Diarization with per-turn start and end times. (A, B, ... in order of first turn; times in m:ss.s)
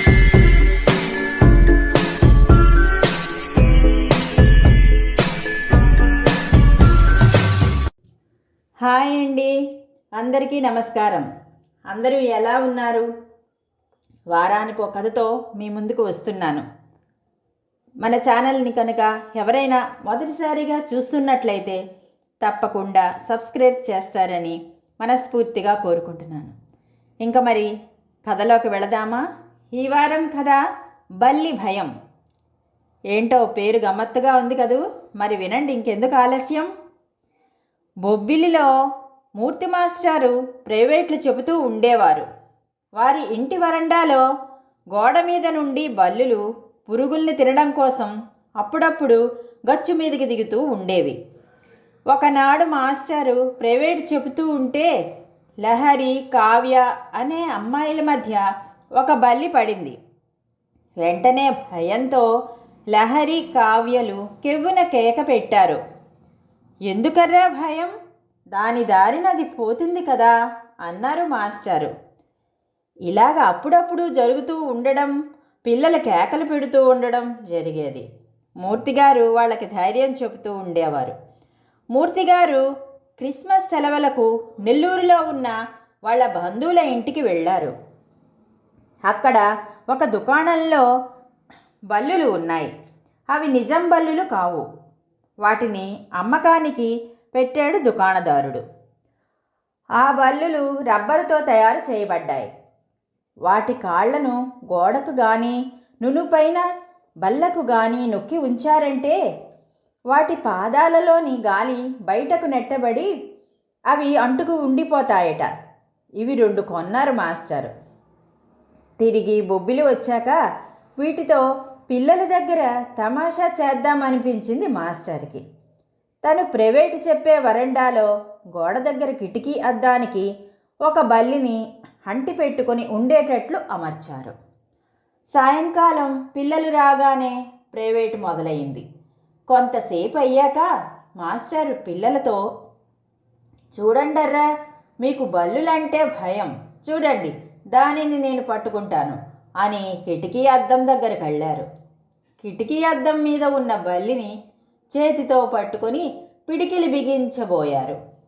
0:08.8-0:09.6 A
0:10.2-0:11.3 A
0:11.9-0:13.1 A
0:14.3-0:16.6 A
0:18.0-0:21.8 A
0:22.4-0:26.6 A
0:27.2-0:27.7 A
0:28.2-0:30.6 A
0:31.2-0:31.9 A
0:33.1-0:36.7 A
0:38.0-0:38.7 A
0:39.4-0:42.3 A
0:43.0-0:44.2 A
0:44.9-0:51.2 A
0:52.1-0:54.9 A
0:55.6-0:58.4 A
0:59.0-1:00.0 A
1:01.0-1:02.2 A
1:02.9-1:05.8 A
1:06.9-1:07.9 A
1:08.5-1:10.3 A
1:10.8-1:11.9 A
1:13.1-1:15.1 A
1:15.7-1:18.1 A
1:18.6-1:21.2 A
1:21.9-1:22.6 A
1:23.2-1:27.7 A
1:29.0-1:30.9 A
1:31.9-1:32.7 A
1:33.3-1:34.7 A
1:35.4-1:38.6 A
1:40.0-1:42.5 A
1:43.4-1:46.6 A
1:47.2-1:49.2 A
1:50.1-1:53.1 A
1:53.9-1:55.5 A
1:56.2-1:57.7 A
1:59.0-2:00.4 A
2:01.0-2:05.4 A
2:06.2-2:10.3 A
2:10.8-2:14.4 A
2:15.3-2:18.8 A
2:19.5-2:22.4 A
2:23.7-2:24.5 A
2:25.0-2:31.7 A
2:32.4-2:34.3 A
2:34.9-2:38.0 A